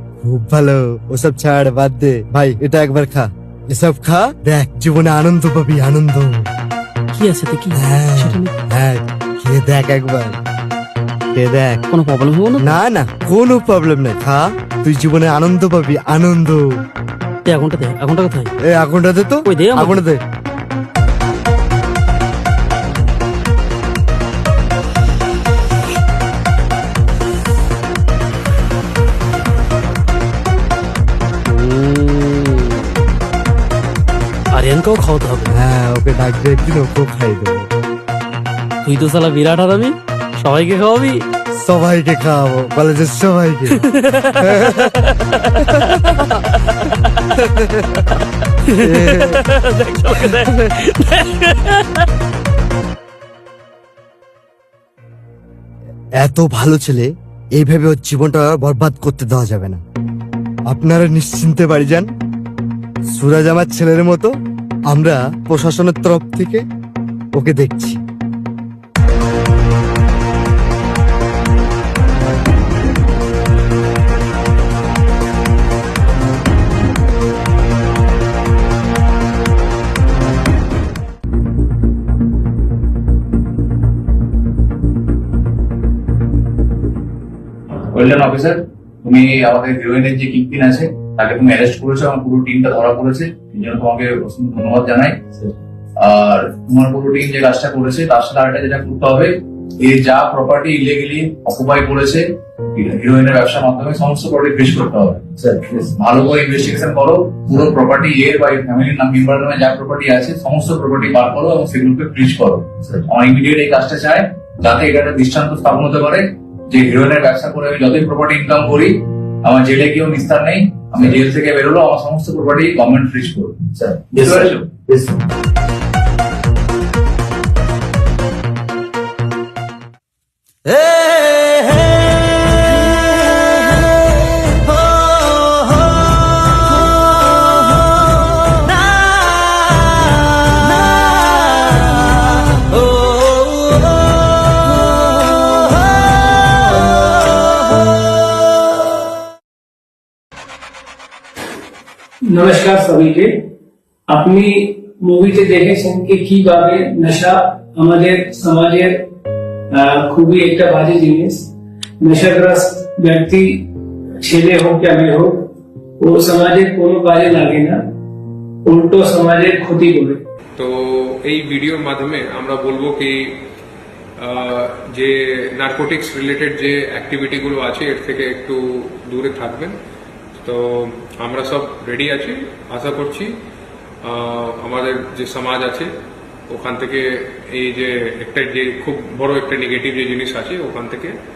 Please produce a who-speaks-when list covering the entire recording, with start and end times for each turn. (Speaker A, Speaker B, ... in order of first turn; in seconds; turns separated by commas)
Speaker A: 0.2-6.5, Speaker B: 7.2-8.5, Speaker A: 7.7-10.4, Speaker A: 11.3-11.8, Speaker B: 11.9-12.8, Speaker A: 12.6-16.6, Speaker B: 17.5-18.5, Speaker A: 18.7-20.2, Speaker B: 19.4-20.0, Speaker B: 31.5-32.9, Speaker B: 34.5-35.6, Speaker A: 35.5-37.7, Speaker B: 38.8-41.2, Speaker A: 41.6-43.8, Speaker B: 43.8-46.2, Speaker A: 44.4-44.9, Speaker B: 48.7-52.0, Speaker A: 48.8-49.4, Speaker A: 56.2-59.8, Speaker A: 60.7-62.1, Speaker A: 63.1-64.3, Speaker A: 64.9-66.6, Speaker A: 67.4-68.0, Speaker C: 87.9-95.2, Speaker C: 96.0-102.2, Speaker C: 102.8-124.7, Speaker D: 152.3-153.4, Speaker D: 154.1-159.0, Speaker D: 159.7-161.4, Speaker D: 162.0-163.6, Speaker D: 164.2-165.5, Speaker D: 166.0-167.8, Speaker D: 168.7-170.2, Speaker E: 170.6-173.4, Speaker E: 174.2-179.8, Speaker E: 180.4-183.3, Speaker E: 184.0-185.9, Speaker E: 186.5-191.2